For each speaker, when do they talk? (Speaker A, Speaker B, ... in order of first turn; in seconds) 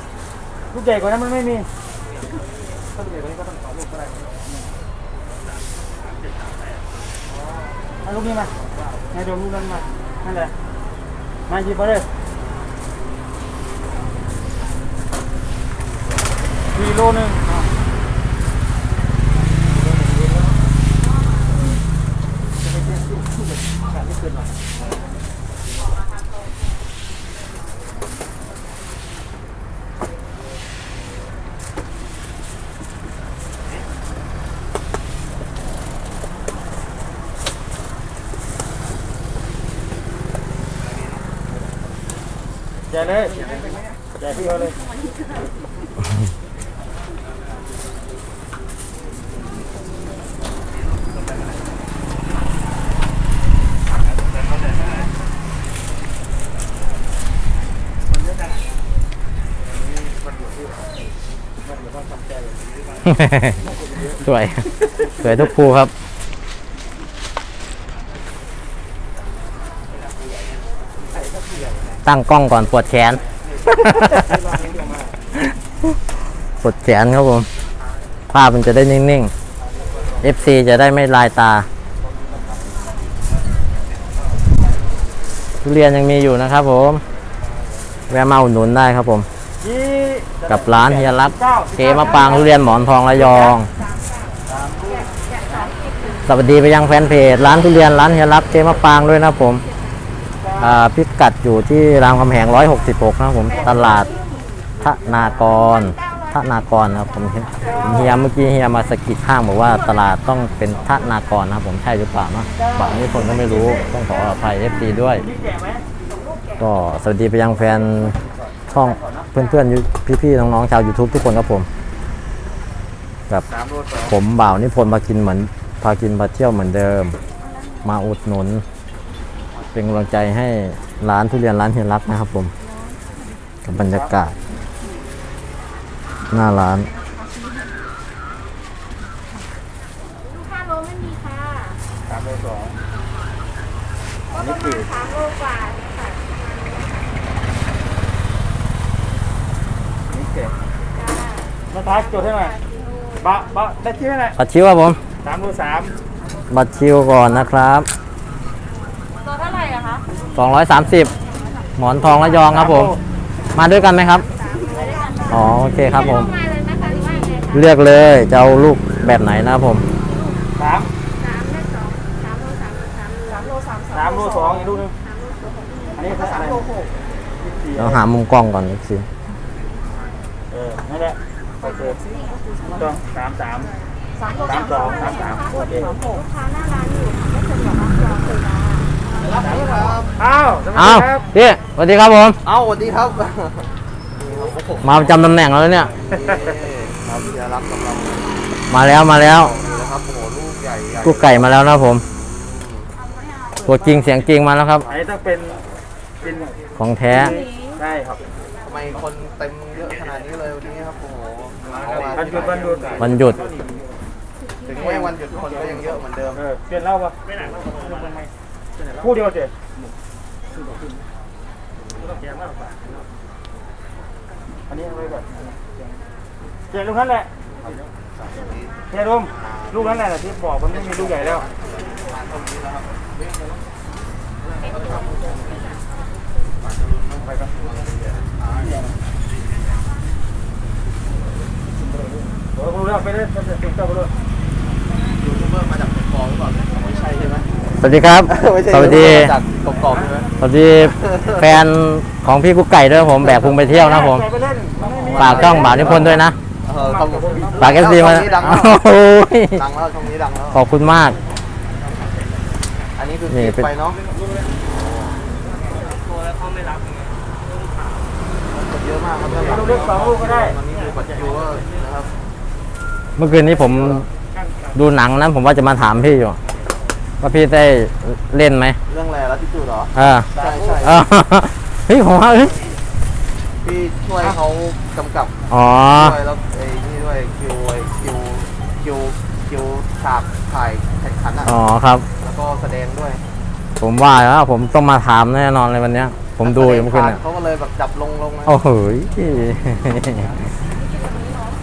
Speaker A: 0.7-1.7, 8.1-8.5, 9.1-10.5, 11.5-12.1, 16.8-17.4, 42.9-43.4, 44.2-44.8, 89.6-92.5, 94.5-95.0, 100.4-100.8, 112.6-114.0, 115.1-115.8, 118.8-119.3, 123.5-124.1, 142.1-142.8, 144.4-144.9, 150.1-150.5, 151.7-152.6, 153.2-154.4, 155.2-155.9, 162.4-163.0, 170.6-170.9, 173.9-174.9, 176.0-176.6, 177.4-178.0, 180.5-182.0, 182.8-183.7, 184.4-185.9, 190.2-191.3, 204.9-205.6, 206.2-206.5, 207.2-208.2, 212.2-213.1, 216.4-217.2, 219.0-219.5, 224.7-225.3, 226.7-227.3, 228.9-231.4, 242.6-244.1, 253.8-256.1, 256.8-257.7, 269.5-270.6
Speaker B: 63.1-63.6, 64.1-65.9, 72.0-73.2, 76.6-77.5, 78.3-79.3, 80.2-81.7, 85.6-87.0, 88.1-89.3, 90.5-93.7, 96.3-99.7, 100.6-104.1, 104.8-115.2, 116.6-118.2, 118.7-121.7, 124.1-127.2, 127.8-128.6, 129.7-132.5, 133.7-134.4, 136.3-136.9, 154.4-155.0, 156.5-157.9, 160.3-161.1, 161.8-163.0, 163.5-164.3, 165.3-166.3, 167.5-169.8, 177.8-179.1, 190.7-192.4, 194.8-195.9, 198.7-199.5, 201.0-202.0, 203.6-204.8, 206.8-207.4, 213.0-213.4, 247.8-249.3, 250.4-254.3, 255.2-256.4, 257.6-259.6, 260.5-261.2, 263.3-263.7, 273.2-274.1, 274.7-276.4, 277.2-278.8, 279.9-282.6, 285.5-286.1, 291.4-292.1, 293.8-297.2, 298.5-300.3
Speaker C: 140.8-141.8, 144.8-146.4, 151.0-151.5, 164.3-165.2, 166.1-167.5, 171.2-173.5, 185.1-188.8
Speaker D: 189.2-190.1, 192.4-195.3, 196.1-198.5, 199.2-201.5, 202.2-202.9, 208.6-212.7, 214.7-216.4, 228.2-230.0, 230.7-232.9, 234.7-235.3, 236.6-238.9, 245.2-247.5, 248.3-251.5, 255.1-258.8, 259.6-260.6, 263.0-264.0, 268.5-272.1, 273.6-274.0, 278.9-281.0, 283.6-285.4, 285.9-291.6, 292.2-293.2, 296.5-298.6